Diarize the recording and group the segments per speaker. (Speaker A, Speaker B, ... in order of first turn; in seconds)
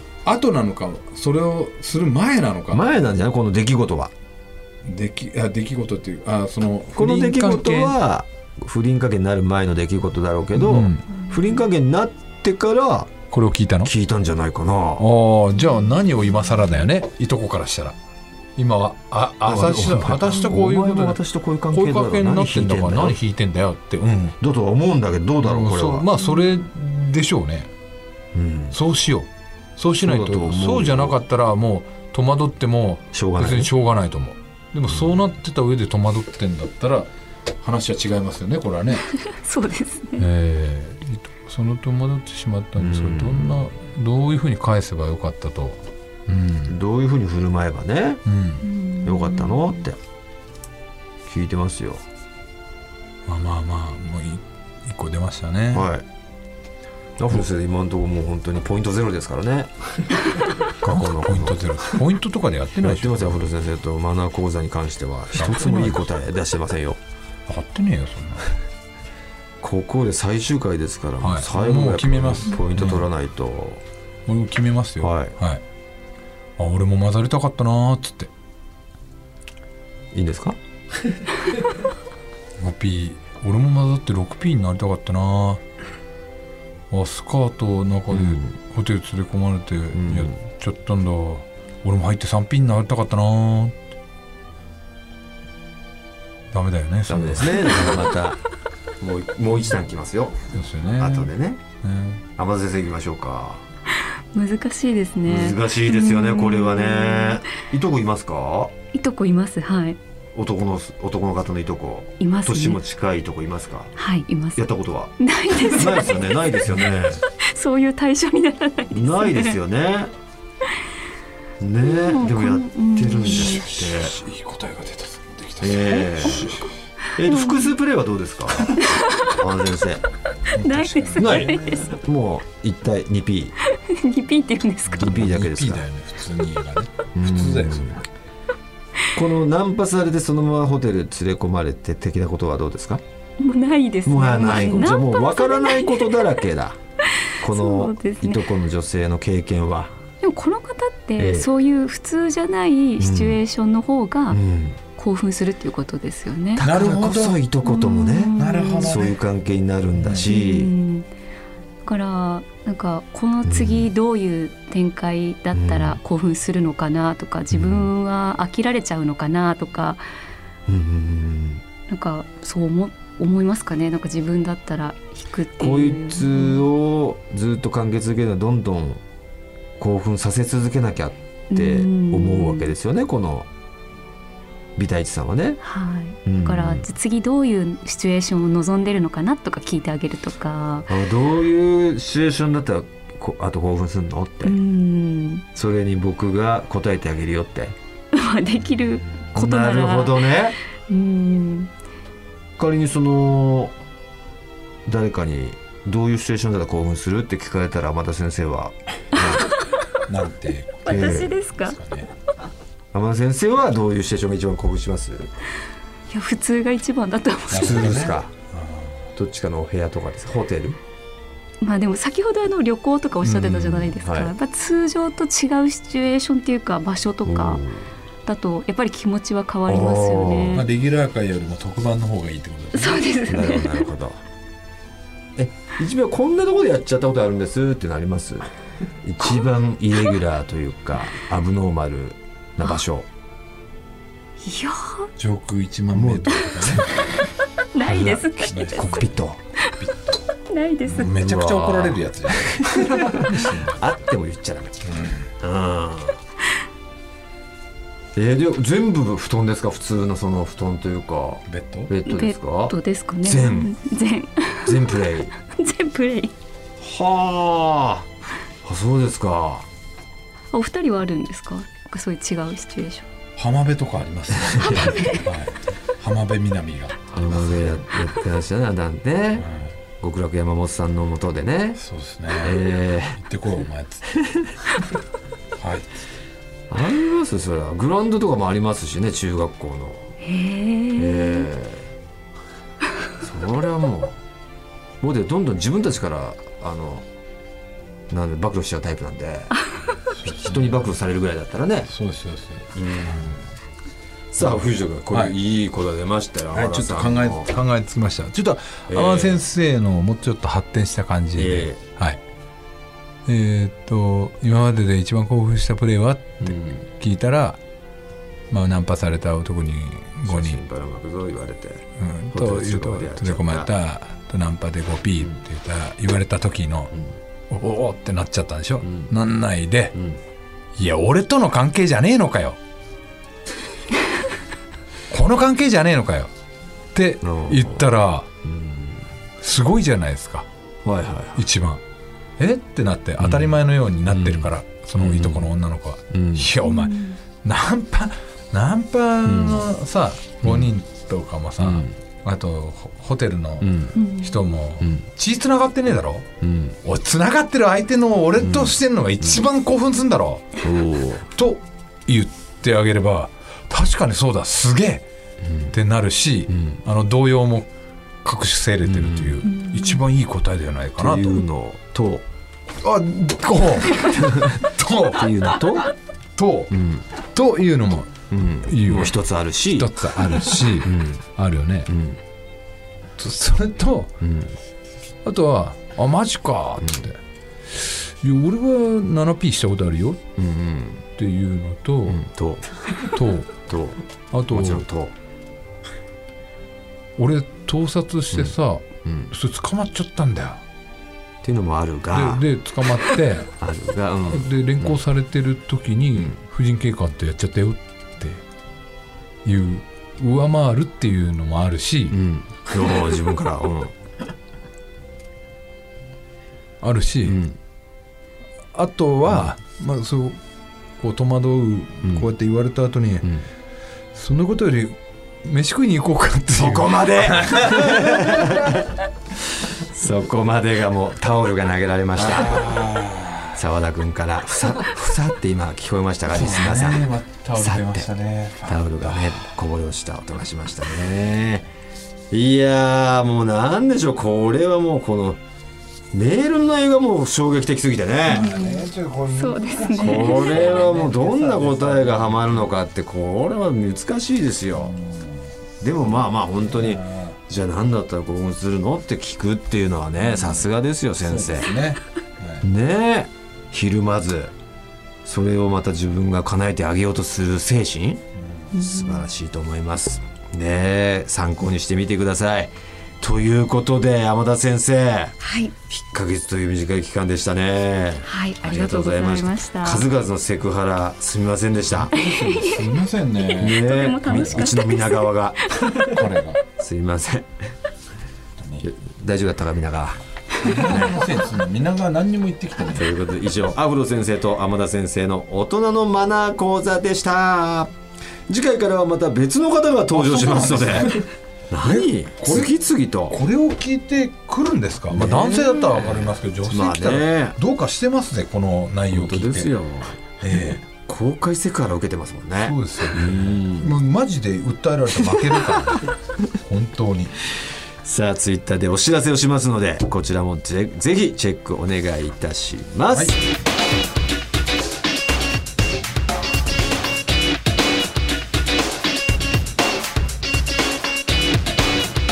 Speaker A: 0.2-2.9, 4.8-8.0, 10.5-11.1, 13.3-13.9, 15.0-17.9, 18.6-21.2, 21.7-24.4, 25.4-27.7, 28.7-37.1, 37.6-39.1, 40.2-46.8, 48.2-48.6, 53.3-55.9, 60.8-63.4, 65.3-66.0, 67.5-68.5, 71.2-73.0, 74.3-75.6, 76.6-78.3, 82.6-85.6, 86.9-93.8, 96.5-97.8, 100.5-101.3, 101.8-102.2, 123.3-126.7, 130.5-131.9, 135.0-138.0, 156.6-157.4, 158.3-159.1, 160.0-160.3, 210.1-212.1, 217.5-219.1, 230.5-233.0, 245.2-247.0, 248.5-249.0, 249.8-250.2, 250.8-253.8, 254.8-255.3, 261.5-261.9, 273.4-277.1, 279.4-279.7, 281.8-284.1, 285.6-285.9, 300.1-300.9, 301.9-303.2, 304.4-305.4, 306.5-312.2, 313.2-317.6, 318.5-320.6, 322.0-326.9, 327.5-329.9, 330.8-332.6, 335.1-336.3, 336.9-338.3, 339.4-340.5, 341.4-341.8, 342.4-356.3, 356.8-360.4, 361.3-365.0, 365.7-367.7, 368.2-371.4, 372.8-375.6, 376.4-376.7, 377.2-379.2, 379.7-381.9, 383.2-384.1, 385.2-387.2, 387.7-390.2, 391.1-392.2, 393.1-393.6, 394.3-394.8, 397.2-400.6, 402.1-403.5, 404.3-408.4, 409.4-412.2, 416.8-417.4, 418.7-420.4, 421.0-423.3, 424.1-428.8, 432.2-433.6, 436.3-439.4, 448.3-452.7, 454.8-455.4, 456.1-457.4, 460.3-460.7, 461.2-462.6, 468.4-468.7, 481.9-484.7, 486.0-486.6, 488.6-488.9, 490.6-493.0, 500.1-501.3, 501.8-502.7, 503.3-509.7, 510.4-510.8, 512.6-517.3
Speaker B: 2.7-4.1, 6.9-13.1, 13.8-15.1, 19.4-23.2, 24.4-26.1, 28.3-28.8, 30.0-31.2, 33.1-33.7, 34.9-35.2, 42.8-43.7, 46.6-48.2, 49.0-50.0, 51.2-52.0, 55.7-56.0, 57.2-60.1, 60.8-61.8, 62.8-67.0, 69.6-73.8, 75.0-75.3, 80.1-80.6, 88.1-88.5, 89.9-90.3, 97.1-98.4, 99.0-101.6, 102.3-103.6, 105.2-108.7, 110.3-113.9, 114.5-117.2, 118.9-120.1, 121.6-124.2, 125.6-126.5, 127.2-130.0, 131.2-133.5, 134.9-135.8, 137.1-138.0, 139.1-143.0, 144.0-146.8, 147.4-149.9, 151.2-151.5, 153.0-153.4, 154.3-154.8, 156.6-160.7, 163.4-163.9, 165.5-166.0, 167.5-167.9, 170.7-171.6, 175.6-179.0, 179.8-183.5, 184.8-185.6, 186.2-186.8, 190.9-194.6, 195.5-197.8, 199.1-200.6, 202.6-203.7, 204.8-209.5, 210.9-211.3, 212.9-215.3, 217.5-218.3, 219.1-220.8, 223.2-224.3, 227.2-227.9, 229.7-230.6, 233.2-234.2, 235.3-238.5, 239.0-243.1, 245.9-246.8, 247.8-249.4, 251.0-254.8, 255.4-256.2, 258.1-263.7, 264.6-265.3, 266.8-268.1, 268.6-269.7, 274.5-274.9, 277.1-279.5, 280.0-281.8, 282.3-283.2, 284.2-284.5, 286.7-290.1, 290.9-291.9, 293.2-294.2, 295.0-297.1, 298.1-299.5, 300.2-301.9, 302.7-303.4, 304.3-307.5, 308.9-309.4, 311.4-311.8, 316.4-316.8, 320.2-323.7, 328.8-329.1, 329.9-330.2, 337.2-337.9, 338.4-339.1, 340.8-341.4, 343.2-345.5, 346.1-346.5, 349.2-349.7, 350.4-350.7, 351.6-351.9, 353.6-353.9, 356.4-356.8, 358.4-359.4, 360.6-361.3, 365.4-365.7, 366.5-366.8, 368.9-369.4, 371.0-372.2, 374.2-374.4, 375.1-375.9, 376.7-377.1, 378.3-379.9, 380.8-381.2, 381.9-382.2, 384.2-384.6, 390.4-391.1, 392.1-392.6, 393.6-395.1, 399.0-399.3, 401.4-402.4, 403.6-405.0, 412.1-413.9, 417.2-417.6, 426.5-428.9, 429.8-432.8, 433.5-438.1, 438.6-441.7, 442.3-445.4, 446.1-448.6, 450.0-454.9, 455.8-461.8, 462.6-464.5, 465.2-468.2, 468.7-475.4, 475.9-482.2, 483.5-485.7, 486.8-487.6, 488.8-491.1, 492.9-497.9, 498.5-503.4, 505.1-507.6, 509.1-510.2, 510.9-513.9, 515.2-516.0, 518.0-523.4
Speaker C: 39.2-40.2, 48.6-49.8, 103.9-107.4, 108.9-110.0, 112.2-112.8, 114.0-114.7, 115.2-116.7, 117.3-119.5, 121.8-123.6, 127.2-127.7, 128.7-129.3, 130.6-131.9, 133.7-135.1, 143.4-146.2, 147.4-148.5, 150.2-154.4, 155.0-156.6, 157.6-159.0, 160.2-161.1, 161.8-170.0, 171.9-176.7, 181.5-182.7, 185.6-190.9, 194.4-195.4, 198.1-201.7, 210.8-211.8, 216.1-217.8, 221.6-227.6, 228.2-230.7, 232.7-233.9, 244.4-245.1, 247.7-249.0, 250.5-251.1, 262.1-266.3, 270.5-273.1, 274.6-275.2, 290.2-291.5, 346.6-347.2, 353.9-354.4, 369.4-370.0, 448.3-450.8, 468.7-469.3, 475.4-475.7, 478.2-480.1, 482.1-482.9, 483.6-486.0